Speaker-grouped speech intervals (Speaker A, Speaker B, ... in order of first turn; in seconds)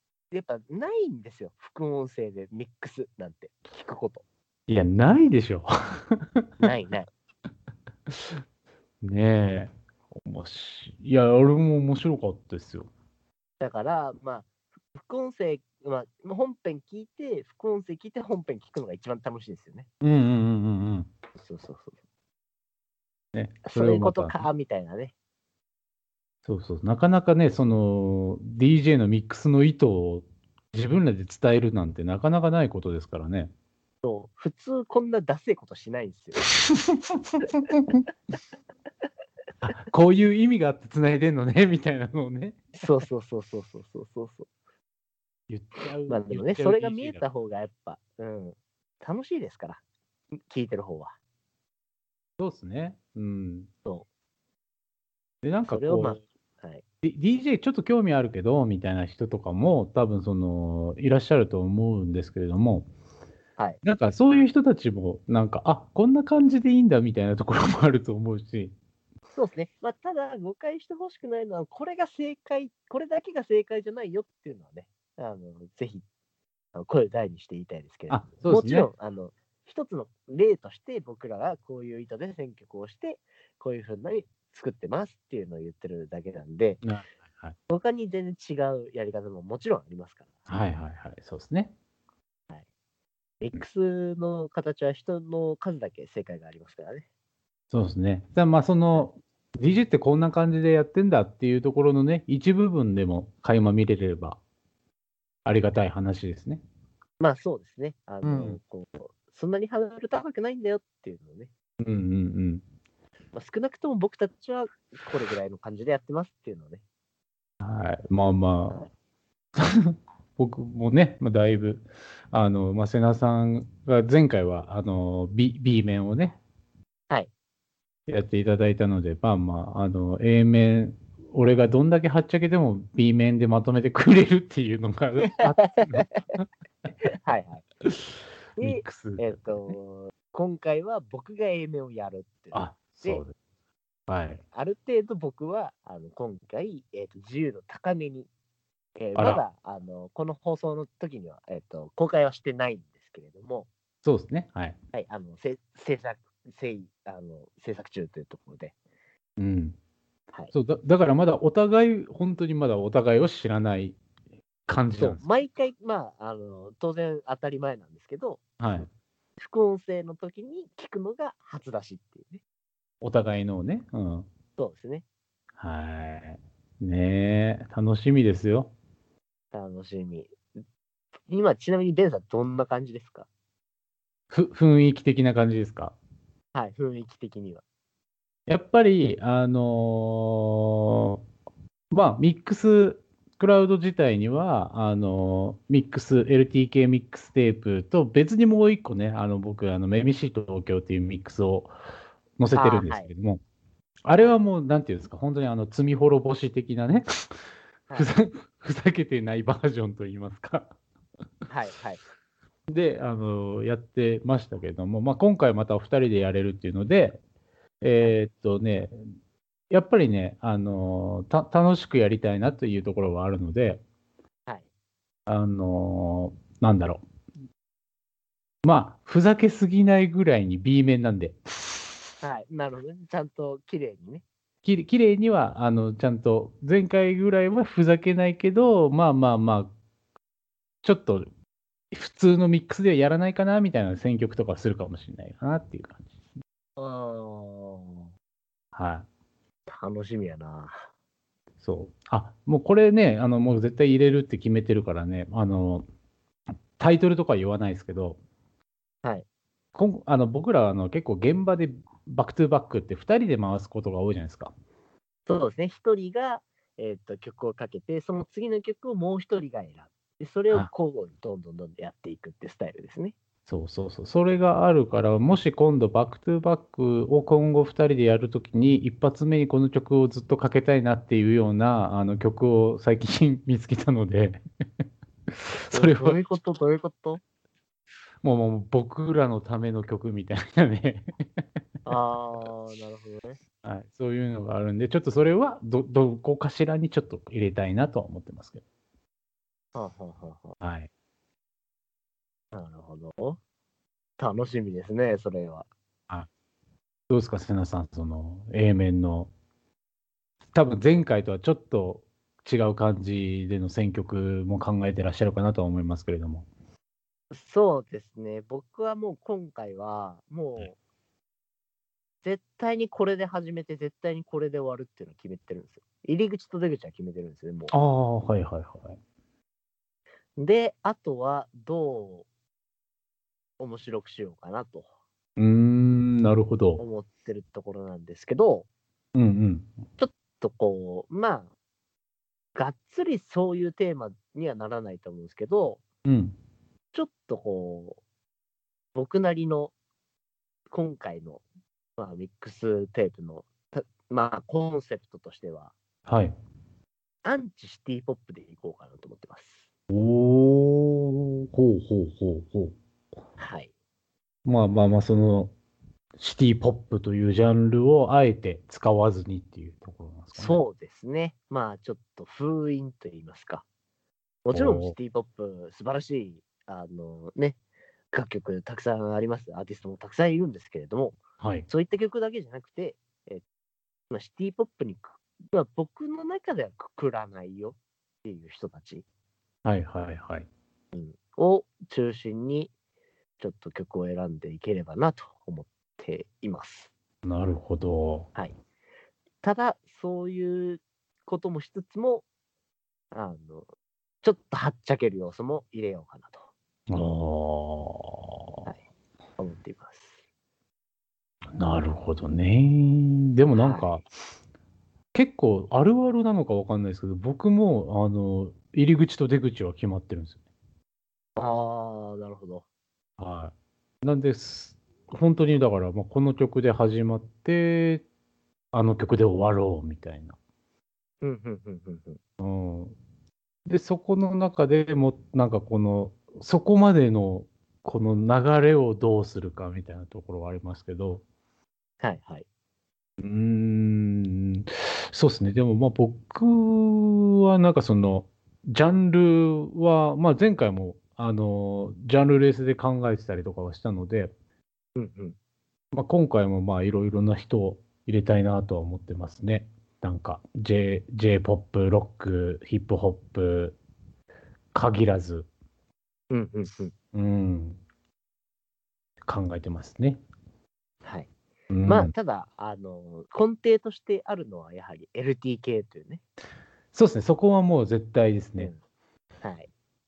Speaker A: 0.3-4.2, 6.6-7.1, 13.6-19.9, 21.4-22.0, 23.7-25.1, 34.0-36.5, 42.8-44.5, 46.1-49.8, 50.5-51.1, 55.7-56.8, 69.3-76.0, 76.8-86.8, 87.7-90.3, 93.4-97.1, 107.2-111.5, 113.3-116.8, 135.8-136.0, 137.2-137.7, 138.6-143.2, 144.5-148.3, 149.0-153.7, 154.9-158.8, 165.0-168.5, 169.4-172.4, 174.6-175.1, 179.5-180.4, 181.3-183.3, 186.5-187.6, 202.5-203.1, 211.5-212.0, 232.2-234.2, 246.8-248.1, 249.7-250.9, 265.3-273.2, 285.7-287.2, 291.9-293.4, 299.8-300.6, 302.5-303.4, 304.2-305.7, 317.3-320.8, 322.2-327.7, 330.4-332.3, 333.6-334.9, 336.8-338.7, 340.0-341.5, 342.6-345.8, 346.9-348.0, 348.9-349.7, 350.7-351.4, 352.0-355.7, 357.2-359.7, 363.4-363.7, 370.4-373.6, 374.4-377.6, 378.1-383.4, 384.1-389.1, 390.9-392.7, 393.4-396.9, 399.4-402.2, 403.1-403.7, 404.2-406.4, 409.4-410.2, 413.5-413.9, 421.4-422.6, 431.2-432.2, 442.0-442.4, 455.0-455.4, 466.3-466.9, 471.0-471.3, 471.9-476.2, 479.4-479.7
Speaker B: 4.7-6.5, 8.1-8.4, 9.0-12.9, 20.0-21.1, 23.3-24.4, 26.4-33.5, 36.7-38.0, 39.6-42.7, 45.5-47.2, 52.4-53.7, 55.4-56.2, 57.0-62.9, 63.8-68.7, 78.1-78.9, 86.8-87.5, 90.5-91.7, 97.7-104.4, 105.5-106.6, 108.2-108.6, 111.8-112.6, 117.6-118.9, 119.6-126.4, 128.1-136.4, 138.6-139.7, 142.5-143.3, 144.1-144.4, 149.2-149.4, 154.0-154.8, 159.4-159.8, 160.5-164.0, 164.7-165.2, 168.6-168.9, 173.0-174.3, 175.6-178.7, 184.3-186.0, 188.5-191.2, 191.9-201.7, 202.4-203.4, 204.0-207.1, 207.9-210.7, 212.7-217.2, 217.8-219.1, 219.7-223.8, 225.3-227.0, 228.6-231.8, 234.6-239.7, 240.8-241.3, 241.9-246.1, 248.7-249.1, 251.6-255.8, 256.8-258.2, 259.8-264.5, 273.5-284.4, 285.5-286.2, 288.2-291.4, 293.6-298.6, 300.6-300.9, 307.1-309.3, 310.5-316.5, 327.7-329.0, 335.4-336.8, 339.1-339.7, 346.1-346.4, 356.1-356.4, 359.9-362.8, 364.4-365.5, 366.2-370.6, 374.5-375.0, 381.4-381.7, 389.6-390.5, 397.2-398.3, 406.9-408.4, 411.6-414.1, 415.1-420.4, 423.2-428.1, 428.7-430.4, 432.4-432.9, 433.7-441.2, 443.2-454.3, 455.9-463.8, 464.7-465.5, 467.1-467.8, 469.3-470.2, 471.7-472.1, 476.9-478.7